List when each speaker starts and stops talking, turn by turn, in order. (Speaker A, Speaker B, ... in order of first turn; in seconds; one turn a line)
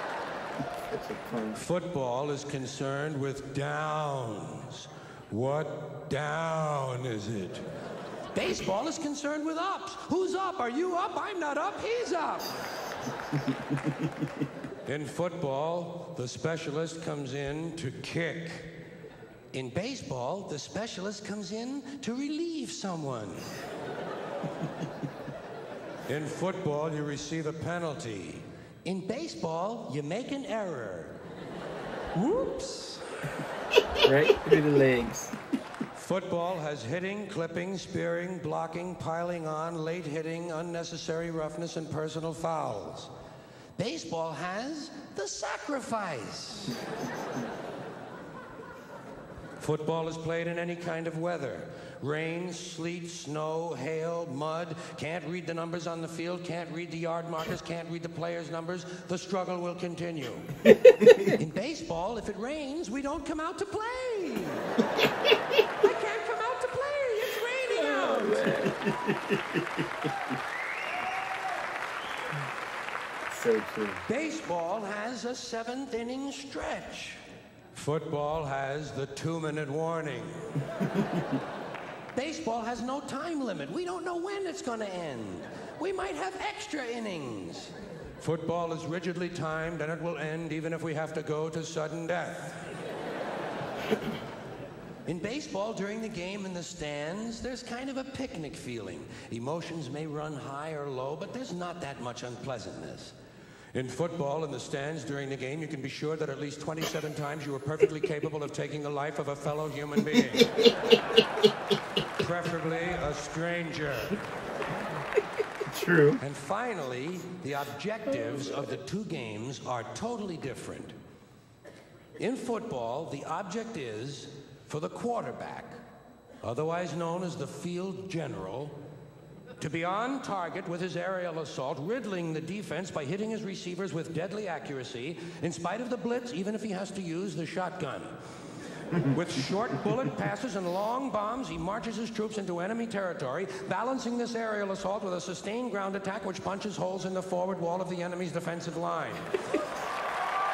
Speaker A: 0.9-1.6
Speaker B: 1.5-7.6
Speaker B: 8.3-12.5
Speaker B: 14.8-18.8
Speaker B: 19.5-23.5
Speaker B: 26.1-31.2
Speaker B: 32.1-33.0
Speaker C: 34.0-35.3
Speaker B: 35.9-43.1
Speaker B: 43.8-46.8
Speaker B: 49.6-60.6
Speaker C: 60.7-61.3
Speaker B: 61.2-64.7
Speaker B: 65.8-68.5
Speaker C: 67.7-68.7
Speaker A: 68.6-69.5
Speaker A: 73.3-74.0
Speaker B: 74.1-77.2
Speaker B: 77.7-80.3
Speaker B: 82.1-92.7
Speaker B: 95.0-103.1
Speaker B: 103.7-110.5
Speaker A: 110.1-111.2
Speaker B: 112.2-114.2
Speaker A: 115.7-116.2
Speaker B: 116.2-120.9
Speaker B: 122.2-125.7
Speaker B: 126.4-128.8
Speaker B: 129.6-138.1
Speaker B: 139.1-149.3